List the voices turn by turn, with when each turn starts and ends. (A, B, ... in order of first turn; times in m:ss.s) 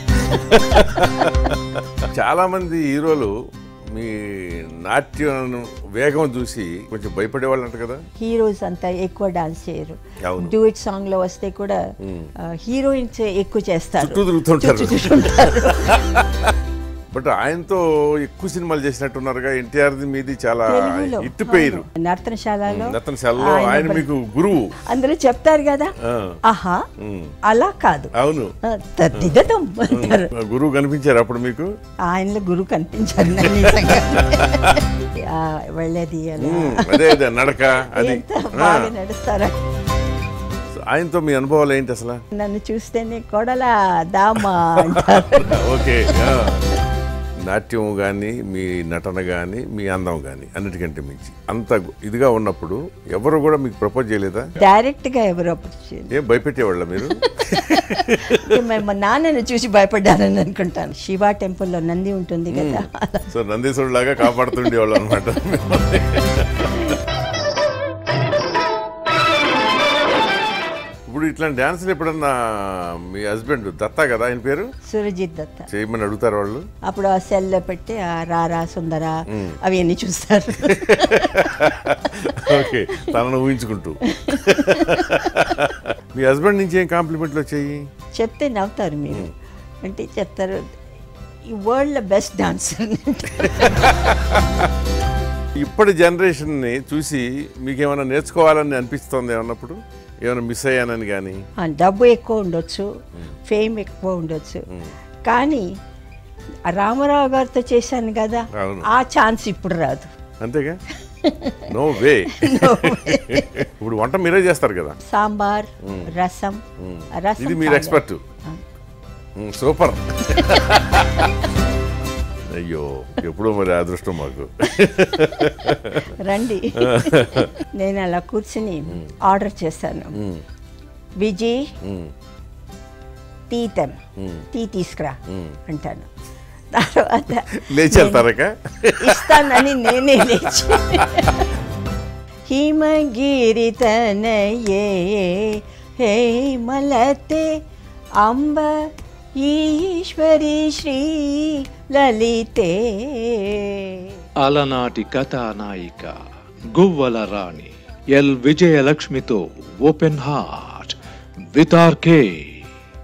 0:00.2-0:03.3 A
0:03.9-0:08.0 A
0:08.2-0:11.8 B
0:10.2-0:10.5 A
0:12.0-0:12.3 A
0:12.5-0:16.0 B
0:14.0-0:16.5 A
0:17.1-0:21.8 A
0:20.7-0:24.0 B
0:22.7-0:24.7 A
0:24.9-0:25.9 B
0:26.0-0:26.4 A
0:26.4-0:26.8 B
0:27.0-0:27.3 A
0:27.4-0:28.1 B
0:28.1-0:28.5 A
0:28.6-0:30.3 B
0:29.9-0:31.7 A
0:32.1-0:37.2 B
0:33.4-0:34.8 A
0:36.4-0:38.9 A
0:37.9-0:39.6 B
0:40.7-0:42.2 A
0:42.3-0:45.6 B
0:44.9-0:46.6 A
0:47.4-0:54.5 A
0:54.6-0:56.1 B
0:56.1-0:58.5 A
0:57.0-1:03.3 B
1:02.5-1:07.0 A
1:04.2-1:04.7 B
1:11.1-1:14.7 A
1:14.8-1:15.7 B
1:15.7-1:16.6 A
1:16.8-1:21.6 B
1:19.3-1:19.6 A
1:20.6-1:27.8 A
1:22.4-1:23.2 B
1:24.1-1:25.6 B
1:28.2-1:29.3 B
1:29.8-1:30.6 B
1:31.5-1:33.9 B
1:33.6-1:34.6 A
1:35.6-1:41.4 A
1:41.6-1:42.9 B
1:43.5-1:44.6 B
1:45.2-1:45.6 B
1:46.7-1:50.1 B
1:48.6-1:48.9 A
1:50.4-1:50.8 A
1:51.2-1:51.7 B
1:51.7-1:55.0 A
1:52.3-1:53.6 B
1:55.0-1:56.6 B
1:55.8-1:56.1 A
1:56.8-1:58.2 A
1:57.2-1:58.6 B
1:59.4-2:01.2 A
2:02.5-2:06.1 A
2:06.0-2:10.1 B
2:06.8-2:07.5 A
2:10.2-2:10.4 A
2:11.2-2:11.6 B
2:11.8-2:12.1 A
2:13.5-2:14.0 B
2:14.2-2:14.4 A
2:14.5-2:16.1 B
2:15.3-2:15.6 A
2:16.7-2:18.3 B
2:17.5-2:21.1 A
2:19.0-2:21.4 B
2:22.5-2:27.5 B
2:28.2-2:28.7 B
2:29.4-2:34.2 B
2:34.4-2:36.2 C
2:36.7-2:41.0 C
2:41.5-2:42.6 C